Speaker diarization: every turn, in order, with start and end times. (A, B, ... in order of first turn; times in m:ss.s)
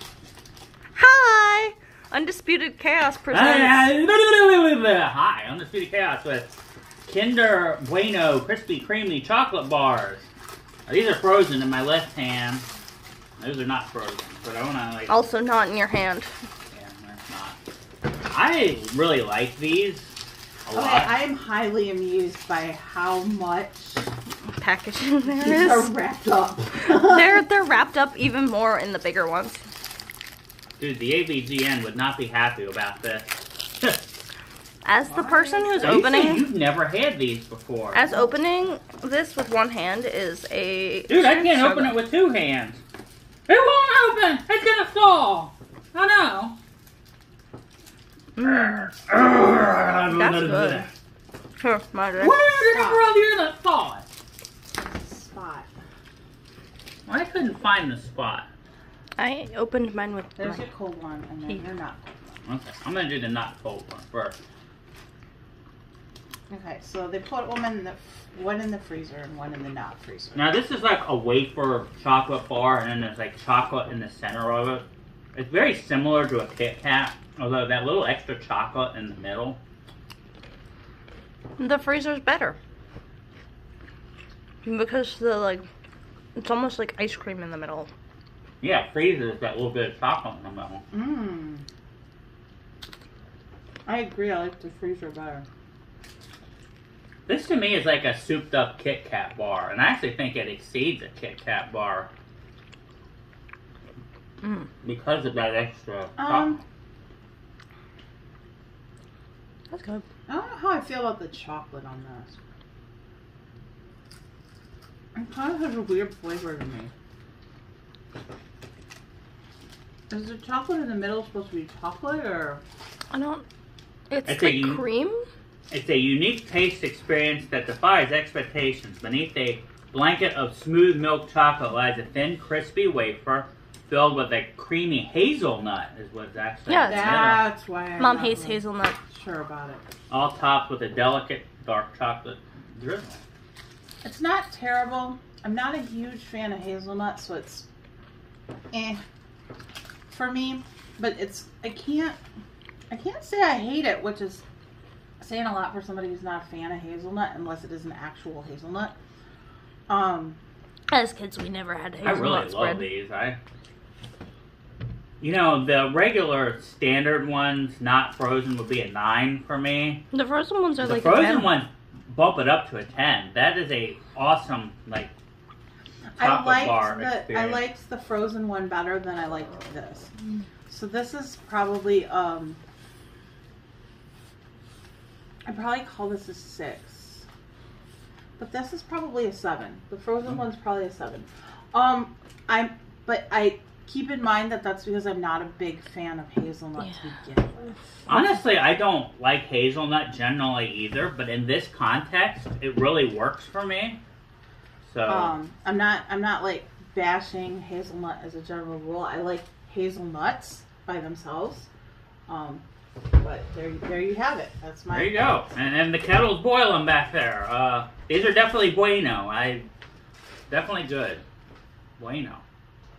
0:01.0-0:03.9 A
0:03.3-0:06.5 B
0:07.1-0:10.3 B
0:10.9-0:12.7 B
0:13.4-0:15.2 B
0:15.1-0:16.3 A
0:16.7-0:17.6 B
0:18.2-0:20.1 B
0:20.6-0:21.2 B
0:20.7-0:24.1 C
0:24.6-0:25.9 A
0:25.2-0:27.5 C
0:26.8-0:29.6 A
0:30.8-0:34.0 B
0:34.8-0:36.5 A
0:35.0-0:35.9 C
0:35.8-0:38.0 B
0:37.9-0:42.0 A
0:41.1-0:42.8 B
0:43.5-0:46.6 B
0:48.4-0:48.9 A
0:48.4-0:50.9 B
0:50.0-0:50.9 A
0:51.6-0:52.4 A
0:52.2-0:54.0 B
0:52.6-0:53.1 C
0:54.8-0:55.7 C
0:57.0-0:58.5 B
0:59.2-1:00.6 A
1:00.4-1:02.3 C
1:02.4-1:04.4 B
1:06.5-1:10.6 C
1:10.3-1:19.6 B
1:21.6-1:22.6 A
1:24.6-1:25.7 A
1:26.4-1:27.9 A
1:28.6-1:30.8 B
1:30.9-1:31.6 C
1:33.8-1:35.5 C
1:37.3-1:42.1 B
1:44.8-1:46.6 B
1:46.2-1:46.6 C
1:49.7-1:50.0 A
1:50.3-1:52.4 C
1:55.1-1:56.9 C
2:00.1-2:02.6 C
2:03.1-2:03.4 A
2:04.1-2:05.2 A
2:04.2-2:04.8 B
2:05.7-2:17.5 B
2:16.7-2:17.3 A
2:16.9-2:19.8 C
2:18.0-2:19.0 A
2:20.1-2:23.2 B
2:24.0-2:27.7 C
2:28.7-2:29.0 C
2:30.1-2:32.2 C
2:32.9-2:34.4 C
2:35.2-2:38.9 C
2:39.9-2:40.4 C
2:40.9-2:42.9 A
2:42.0-2:43.4 B
2:45.2-2:50.0 B
2:50.1-2:51.6 A
2:50.8-2:55.1 B
2:56.1-3:00.1 C
2:56.2-2:57.6 B
3:00.7-3:02.6 C
3:05.4-3:07.2 C
3:08.4-3:17.8 C
3:18.1-3:24.0 B
3:24.8-3:25.3 B
3:25.1-3:31.7 C
3:32.3-3:35.4 C
3:34.9-3:39.7 B
3:40.5-3:41.2 B
3:42.0-3:42.4 B